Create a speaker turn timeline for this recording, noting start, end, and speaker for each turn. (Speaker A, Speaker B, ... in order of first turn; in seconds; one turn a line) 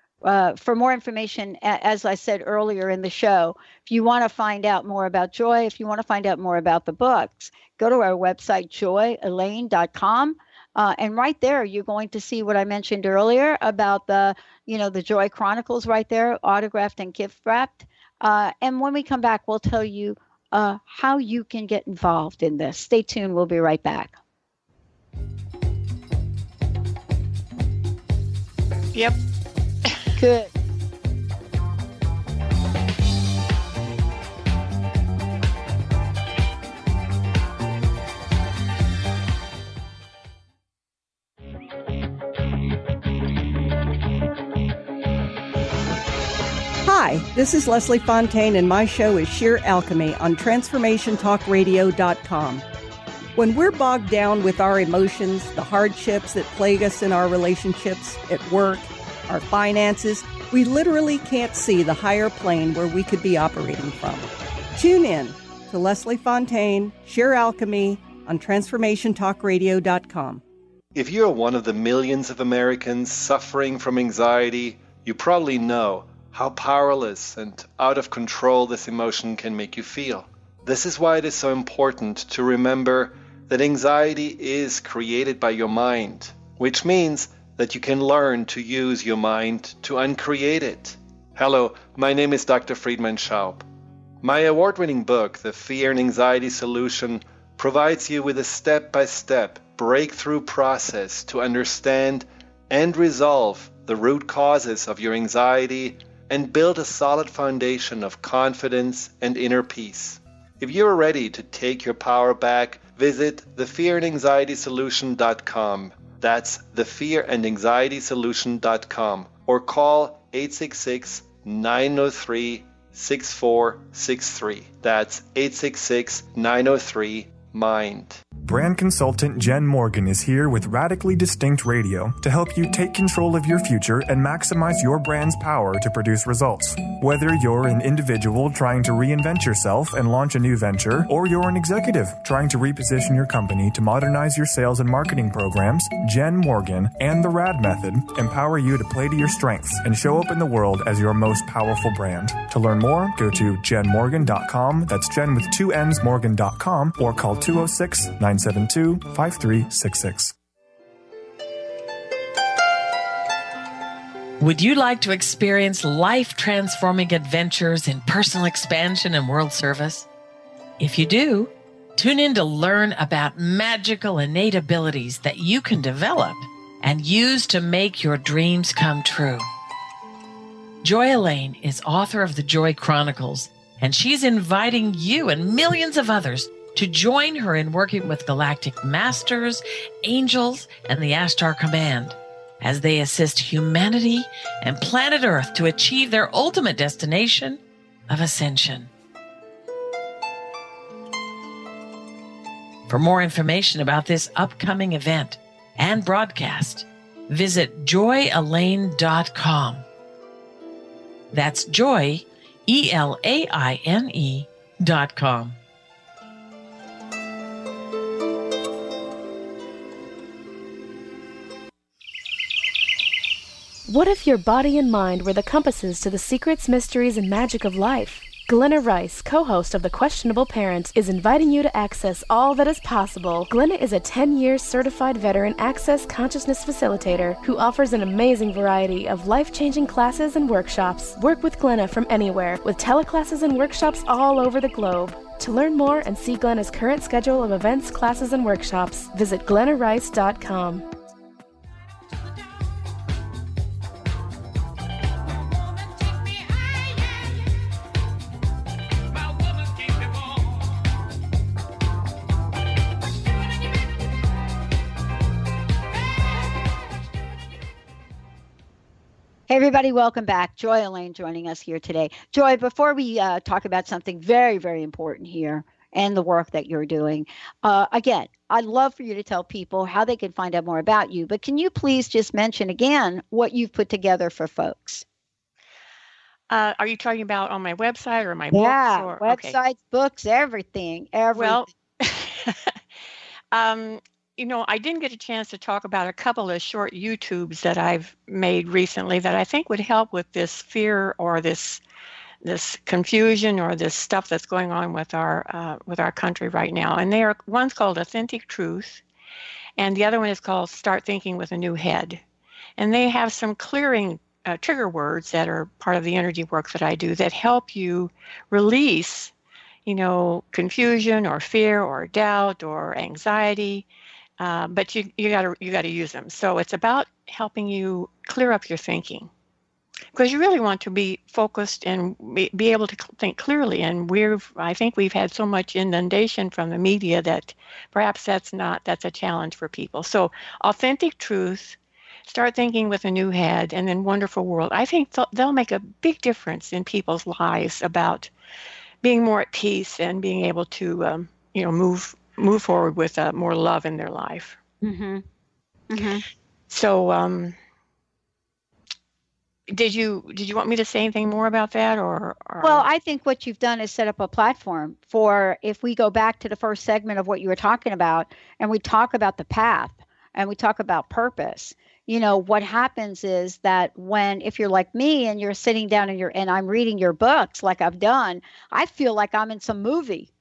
Speaker A: 0.2-24.2
Speaker B: 28.9-29.2
Speaker A: 30.1-30.5
Speaker C: 46.8-52.6
Speaker C: 53.4-70.4
Speaker D: 70.9-93.6
Speaker D: 94.2-128.2
Speaker E: 128.4-160.3
Speaker F: 164.4-170.1
Speaker F: 170.8-179.4
Speaker F: 180.8-198.9
Speaker F: 202.9-209.8
Speaker F: 211.3-215.6
Speaker G: 223.8-250.8
Speaker A: 269.5-285.0
Speaker B: 286.5-289.6
Speaker A: 288.5-291.7
Speaker B: 291.3-292.8
Speaker B: 293.5-301.8
Speaker B: 302.4-309.0
Speaker B: 309.8-312.2
Speaker B: 312.8-319.3
Speaker B: 319.8-323.9
Speaker B: 324.4-329.3
Speaker B: 330.1-348.3
Speaker B: 349.0-354.6
Speaker A: 354.8-355.2
Speaker A: 355.9-356.2
Speaker B: 356.7-357.5
Speaker B: 359.7-362.9
Speaker A: 362.6-380.3